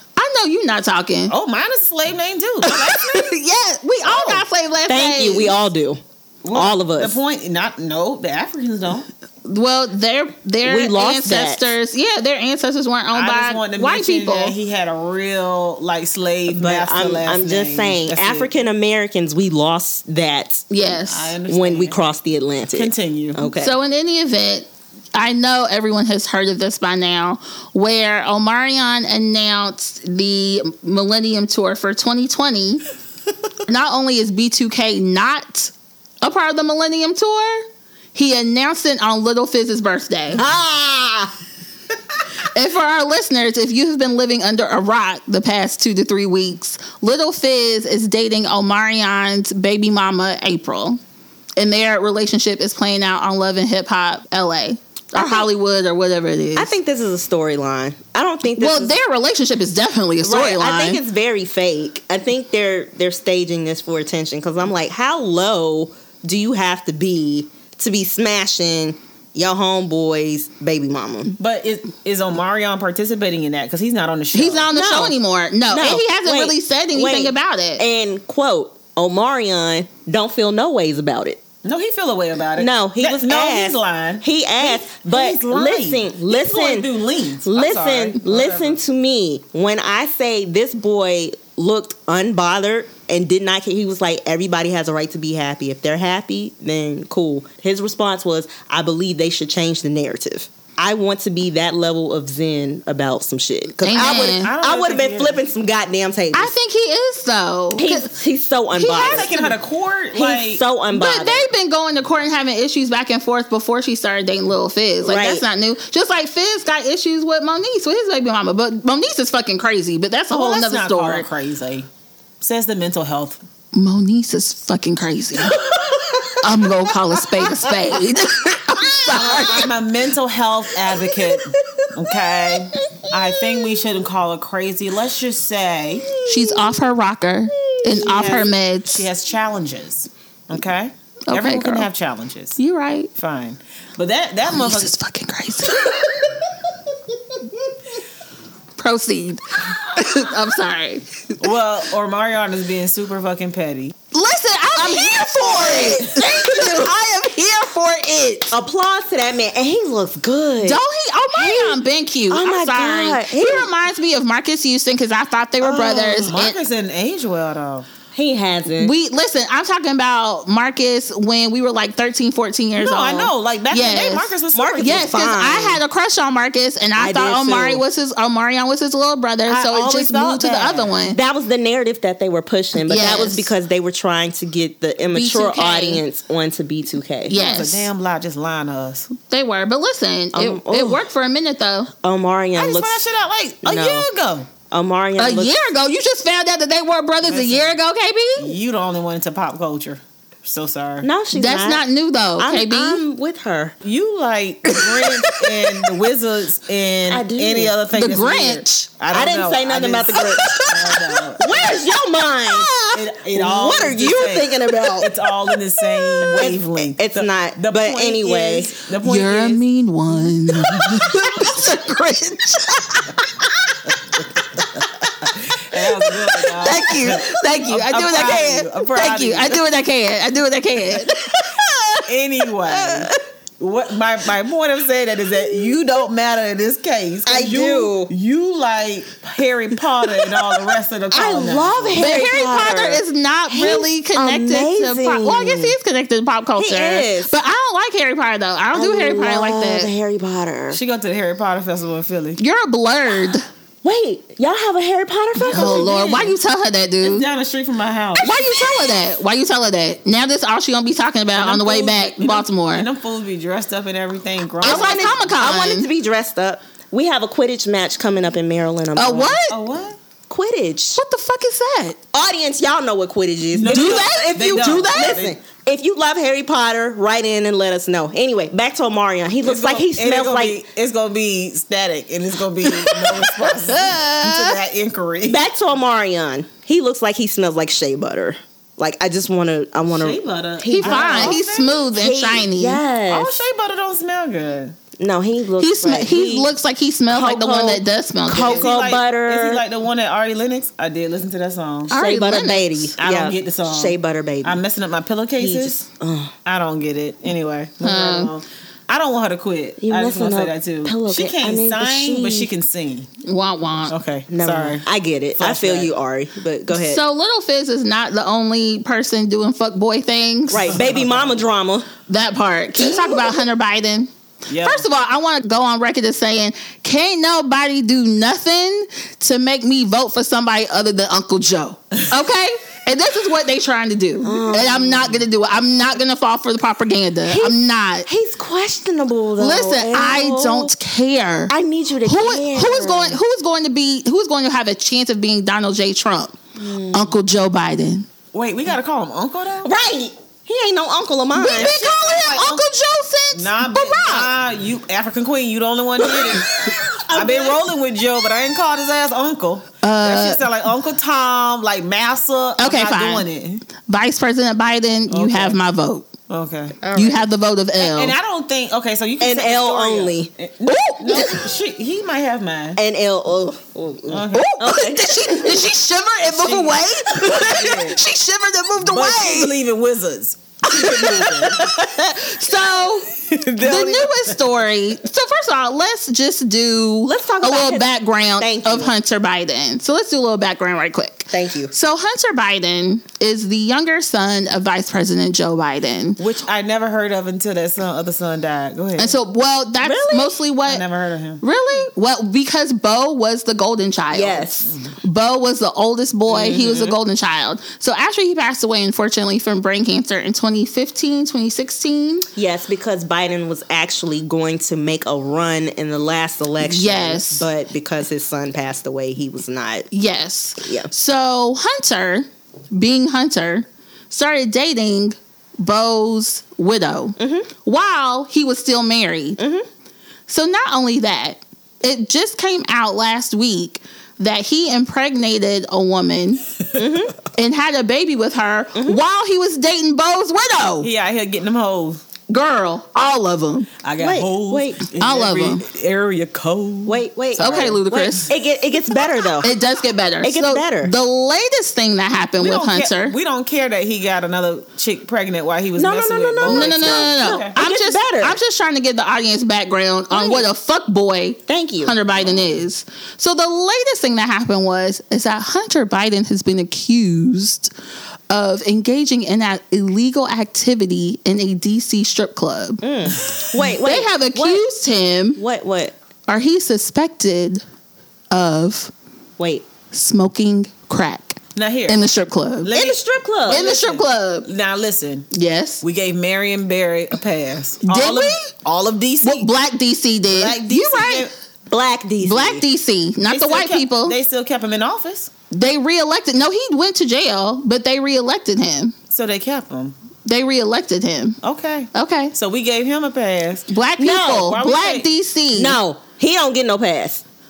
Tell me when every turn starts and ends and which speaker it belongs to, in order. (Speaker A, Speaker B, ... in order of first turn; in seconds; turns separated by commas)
Speaker A: 0.2-1.3, Speaker B: 1.3-3.3, Speaker A: 2.6-5.5, Speaker B: 4.1-4.4, Speaker C: 4.9-6.0, Speaker B: 6.4-9.1, Speaker C: 6.5-7.2, Speaker A: 9.4-14.6, Speaker C: 10.6-11.8, Speaker B: 13.1-18.5, Speaker C: 16.5-20.7, Speaker A: 20.7-21.3, Speaker B: 20.9-22.1, Speaker C: 21.5-23.7, Speaker B: 22.7-23.4, Speaker A: 23.5-32.8, Speaker A: 33.7-40.4, Speaker C: 40.4-41.3, Speaker A: 42.5-51.0, Speaker A: 51.6-56.7, Speaker C: 55.1-55.5, Speaker C: 56.6-59.0, Speaker A: 58.6-61.0, Speaker C: 60.2-71.3, Speaker B: 71.3-74.7, Speaker A: 74.3-77.8, Speaker C: 74.7-75.2, Speaker C: 75.7-81.4, Speaker B: 81.6-88.8, Speaker C: 82.6-86.9, Speaker C: 87.5-106.5, Speaker A: 103.8-104.5, Speaker B: 103.9-105.4, Speaker A: 106.3-108.1, Speaker C: 107.8-109.5, Speaker A: 108.8-109.5, Speaker B: 108.9-110.6, Speaker C: 110.1-111.5, Speaker A: 110.9-121.3, Speaker C: 115.0-115.4, Speaker B: 120.3-121.9, Speaker B: 122.4-123.4, Speaker A: 123.7-125.6, Speaker C: 125.7-126.4, Speaker A: 126.4-129.7, Speaker C: 127.2-127.5, Speaker C: 129.1-129.5, Speaker B: 129.2-136.1, Speaker C: 130.9-133.9, Speaker C: 136.1-136.8, Speaker A: 136.2-139.1, Speaker C: 137.6-138.4, Speaker B: 137.9-142.6, Speaker A: 141.3-141.9, Speaker A: 142.6-143.1, Speaker B: 143.2-144.9, Speaker A: 144.5-146.0, Speaker A: 148.8-151.4, Speaker B: 151.4-153.9, Speaker A: 154.1-158.6, Speaker C: 154.8-156.8, Speaker C: 158.5-160.8, Speaker A: 160.6-166.6, Speaker C: 161.3-163.7, Speaker B: 165.6-167.9, Speaker C: 168.1-168.9, Speaker A: 168.8-181.2, Speaker B: 172.8-175.1, Speaker C: 174.5-175.8, Speaker C: 177.0-177.8, Speaker B: 179.5-180.9, Speaker C: 181.1-187.4, Speaker A: 182.8-183.5, Speaker A: 185.1-186.0, Speaker A: 187.3-187.9, Speaker B: 187.3-189.1, Speaker A: 189.1-191.9, Speaker C: 190.3-191.0, Speaker C: 192.0-193.0, Speaker B: 192.6-194.5, Speaker C: 193.6-194.1, Speaker C: 194.7-195.5, Speaker A: 195.2-198.5, Speaker B: 197.2-197.8, Speaker B: 198.4-201.1, Speaker C: 201.0-201.8, Speaker A: 201.3-203.0, Speaker C: 202.4-203.8, Speaker B: 203.8-211.5, Speaker A: 204.7-205.3, Speaker C: 207.1-207.7, Speaker A: 207.9-208.9, Speaker C: 209.1-210.6, Speaker A: 210.2-211.9, Speaker C: 211.4-215.1, Speaker A: 212.5-212.9, Speaker B: 212.8-219.6, Speaker C: 216.2-218.7, Speaker A: 219.0-223.9, Speaker B: 220.5-221.2, Speaker A: 224.6-232.0, Speaker B: 225.3-229.6, Speaker B: 232.1-242.0, Speaker A: 232.7-233.2, Speaker C: 237.3-238.1, Speaker C: 241.1-245.8, Speaker A: 242.0-249.9, Speaker C: 246.6-247.3, Speaker C: 248.8-250.8, Speaker B: 250.7-252.4, Speaker A: 252.4-253.5, Speaker C: 253.8-256.2, Speaker B: 255.4-256.3, Speaker A: 255.5-257.2, Speaker B: 257.0-258.3, Speaker A: 258.2-262.9, Speaker C: 258.3-258.9, Speaker B: 261.4-265.2, Speaker C: 264.6-269.4, Speaker A: 264.6-265.9, Speaker A: 269.0-269.6, Speaker B: 269.5-270.0, Speaker C: 270.3-271.0, Speaker A: 270.9-272.0, Speaker C: 272.1-280.6, Speaker B: 273.6-275.4, Speaker A: 273.7-275.2, Speaker B: 279.4-285.5, Speaker A: 282.7-284.5, Speaker C: 285.2-291.4, Speaker B: 290.0-291.9, Speaker A: 290.7-292.8, Speaker C: 291.9-293.4, Speaker B: 293.1-294.8, Speaker C: 295.0-296.5, Speaker A: 295.6-298.7, Speaker C: 297.1-299.6, Speaker B: 298.4-301.9, Speaker A: 301.9-302.9, Speaker C: 301.9-304.6, Speaker B: 303.0-305.8, Speaker C: 305.4-306.3, Speaker B: 306.4-313.1, Speaker A: 307.8-308.3, Speaker C: 309.8-312.5, Speaker A: 313.2-313.9, Speaker B: 313.9-314.9, Speaker C: 314.3-317.0, Speaker B: 315.4-315.9, Speaker A: 316.7-320.8, Speaker C: 320.5-321.9, Speaker B: 320.7-321.4, Speaker A: 322.1-338.1, Speaker C: 322.8-323.4, Speaker B: 324.5-324.9, Speaker C: 334.2-335.2, Speaker C: 337.3-340.7, Speaker A: 339.4-346.4, Speaker C: 341.5-343.2, Speaker C: 346.6-347.2, Speaker A: 346.9-348.1, Speaker B: 348.3-349.7, Speaker C: 349.6-351.7, Speaker A: 351.4-354.3, Speaker B: 351.5-352.6, Speaker B: 353.3-363.6, Speaker C: 356.0-357.7, Speaker A: 359.8-360.4, Speaker A: 362.6-363.3, Speaker A: 363.8-366.1, Speaker B: 365.1-365.6, Speaker B: 366.3-366.9, Speaker C: 366.8-367.2, Speaker A: 366.9-368.1, Speaker B: 367.8-372.8, Speaker C: 369.2-370.3, Speaker A: 370.7-371.3, Speaker C: 372.8-375.7, Speaker B: 374.1-374.5, Speaker A: 374.3-379.5, Speaker B: 376.3-378.0, Speaker B: 378.8-381.8, Speaker A: 380.6-396.2, Speaker B: 383.2-384.4, Speaker C: 387.1-388.9, Speaker C: 391.3-391.7, Speaker B: 396.2-399.2, Speaker A: 399.0-400.8, Speaker C: 399.8-400.4, Speaker B: 400.6-401.4, Speaker A: 401.4-412.3, Speaker C: 404.1-404.7, Speaker B: 404.6-404.9, Speaker C: 406.3-407.0, Speaker C: 412.4-419.9, Speaker A: 416.6-417.5, Speaker A: 419.9-429.4, Speaker C: 420.6-420.9, Speaker C: 427.2-427.5, Speaker C: 429.4-429.7, Speaker A: 430.3-436.4, Speaker C: 436.8-437.1, Speaker A: 437.3-440.9, Speaker C: 438.8-439.0, Speaker B: 440.8-442.0, Speaker A: 442.3-443.7, Speaker B: 443.8-448.1, Speaker C: 444.0-444.9, Speaker A: 445.0-445.6, Speaker C: 446.9-449.5, Speaker A: 447.4-448.3, Speaker A: 449.4-453.1, Speaker C: 450.2-450.9, Speaker B: 452.4-457.6, Speaker C: 455.8-458.4, Speaker A: 456.4-467.7, Speaker C: 460.1-460.4, Speaker C: 461.5-461.9, Speaker B: 462.1-462.6, Speaker A: 468.3-472.8, Speaker C: 472.8-474.6, Speaker A: 473.8-475.4, Speaker C: 475.4-475.9, Speaker A: 476.3-477.6, Speaker A: 478.3-478.9, Speaker C: 479.4-479.7, Speaker A: 479.9-482.7, Speaker B: 481.6-482.1, Speaker B: 482.6-485.3, Speaker C: 482.7-483.6, Speaker A: 483.5-484.5, Speaker A: 485.3-485.8, Speaker B: 485.8-489.5, Speaker A: 487.8-488.5, Speaker A: 489.2-491.3, Speaker B: 490.3-491.3, Speaker C: 491.7-492.6, Speaker A: 492.2-494.2, Speaker B: 493.3-495.3, Speaker A: 495.5-498.9, Speaker B: 499.1-500.0, Speaker A: 500.2-501.4, Speaker B: 501.4-503.7, Speaker A: 501.9-502.3, Speaker A: 503.7-505.8, Speaker C: 504.0-504.5, Speaker B: 504.2-505.1, Speaker C: 505.5-507.2